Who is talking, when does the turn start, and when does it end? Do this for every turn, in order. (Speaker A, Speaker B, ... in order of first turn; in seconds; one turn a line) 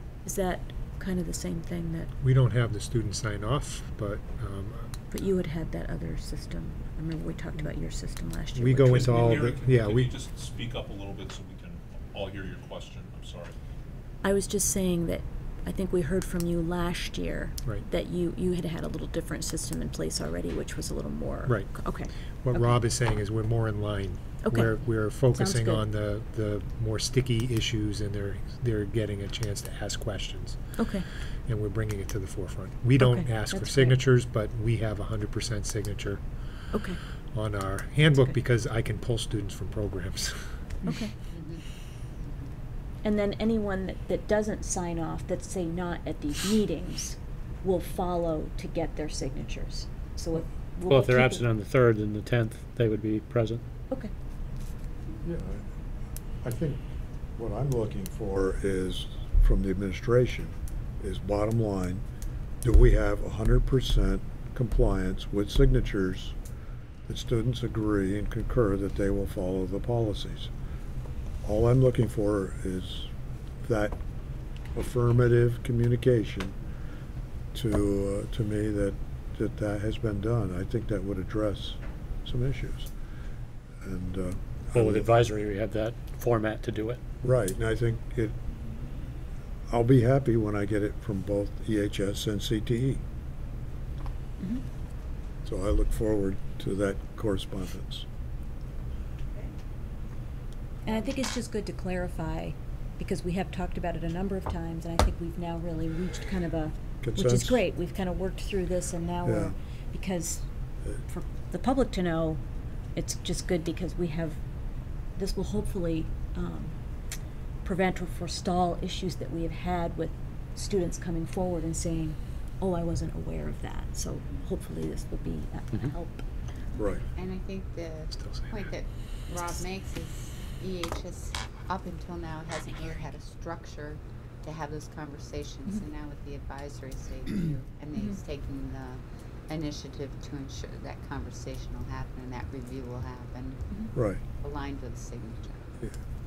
Speaker A: 0.2-2.1
Speaker B: 2.2-4.9
Speaker A: 5.1-9.3
Speaker B: 8.5-10.1
Speaker C: 8.8-13.5
Speaker A: 14.2-22.8
Speaker B: 21.4-21.8
Speaker B: 22.4-30.6
Speaker A: 24.4-24.7
Speaker A: 25.3-25.8
Speaker A: 30.8-31.1
Speaker B: 31.5-36.2
Speaker A: 33.0-34.0
Speaker A: 36.7-37.0
Speaker B: 37.3-40.4
Speaker A: 40.9-41.1
Speaker D: 41.3-41.6
Speaker A: 43.0-51.4
Speaker E: 50.9-53.6
Speaker F: 55.2-55.6
Speaker F: 56.4-56.8
Speaker F: 57.4-62.0
Speaker F: 62.6-66.3
Speaker F: 67.1-70.5
Speaker F: 71.4-73.1
Speaker F: 73.6-74.0
Speaker F: 74.7-76.5
Speaker F: 77.5-82.9
Speaker F: 83.8-85.1
Speaker E: 84.7-87.0
Speaker F: 87.2-88.3
Speaker F: 89.7-93.0
Speaker F: 95.4-98.0
Speaker A: 100.8-110.4
Speaker F: 107.0-107.6
Speaker F: 109.2-109.5
Speaker A: 111.0-112.4
Speaker A: 113.0-114.4
Speaker A: 115.2-116.7
Speaker A: 117.6-126.2
Speaker F: 126.8-127.0
Speaker D: 127.1-145.6
Speaker B: 128.1-128.8
Speaker F: 143.9-144.2